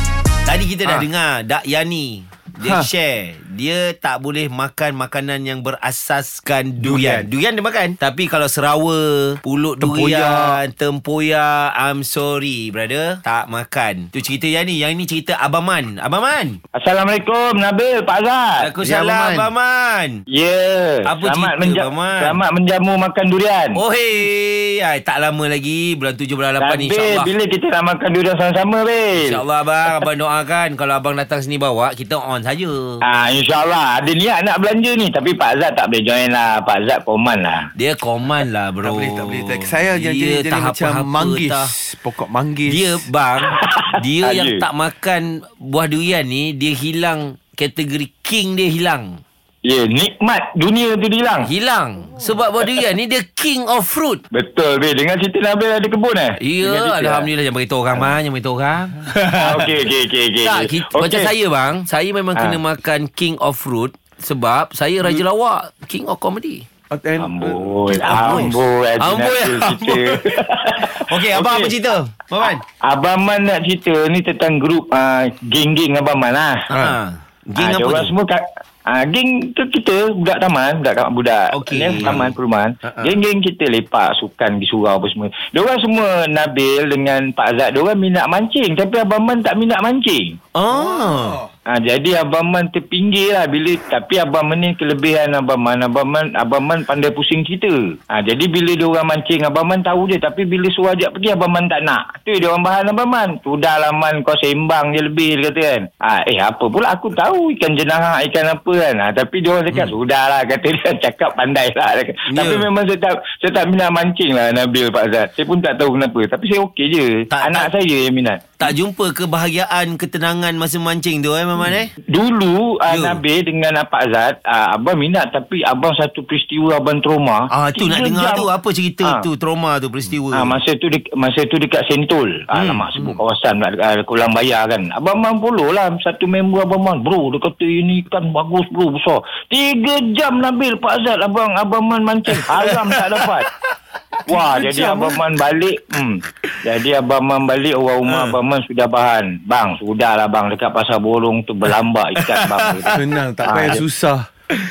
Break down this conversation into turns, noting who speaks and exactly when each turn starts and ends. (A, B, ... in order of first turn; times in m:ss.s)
0:00.5-0:16.6 A
0:02.6-0:02.9 B
0:06.8-0:07.3 B
0:09.8-0:10.6 B
0:16.8-0:19.5 C
0:18.6-0:20.2 A
0:20.3-0:23.8 C
0:21.0-0:22.4 A
0:23.8-0:27.3 A
0:26.6-0:30.1 C
0:29.2-0:33.0 A
0:33.0-0:37.7 C
0:37.8-0:41.7 A
0:38.8-0:43.1 B
0:42.7-0:49.2 A
0:43.5-0:44.6 C
0:49.6-0:51.5 C
0:51.4-0:54.2 A
0:54.3-0:57.3 C
0:56.4-0:59.8 A
0:59.4-1:01.3 C
1:00.4-1:06.7 A
1:02.3-1:02.6 C
1:06.9-1:08.4 B
1:07.2-1:11.7 C
1:08.0-1:10.3 A
1:11.1-1:12.6 A
1:12.4-1:16.7 C
1:16.7-1:18.1 A
1:17.6-1:30.4 C
1:21.5-1:22.3 A
1:22.9-1:23.1 A
1:30.6-1:31.4 A
1:30.7-1:31.4 B
1:31.7-1:58.4 C
1:52.3-1:52.7 A
1:57.3-1:57.7 A
1:58.6-2:01.9 A
2:02.1-2:08.5 C
2:02.9-2:03.2 A
2:07.5-2:10.6 A
2:10.3-2:23.5 C
2:12.5-2:13.2 A
2:22.4-2:23.1 A
2:24.3-2:25.2 B
2:24.3-2:33.8 C
2:28.1-2:28.4 A
2:32.3-2:33.8 A
2:32.9-2:34.3 B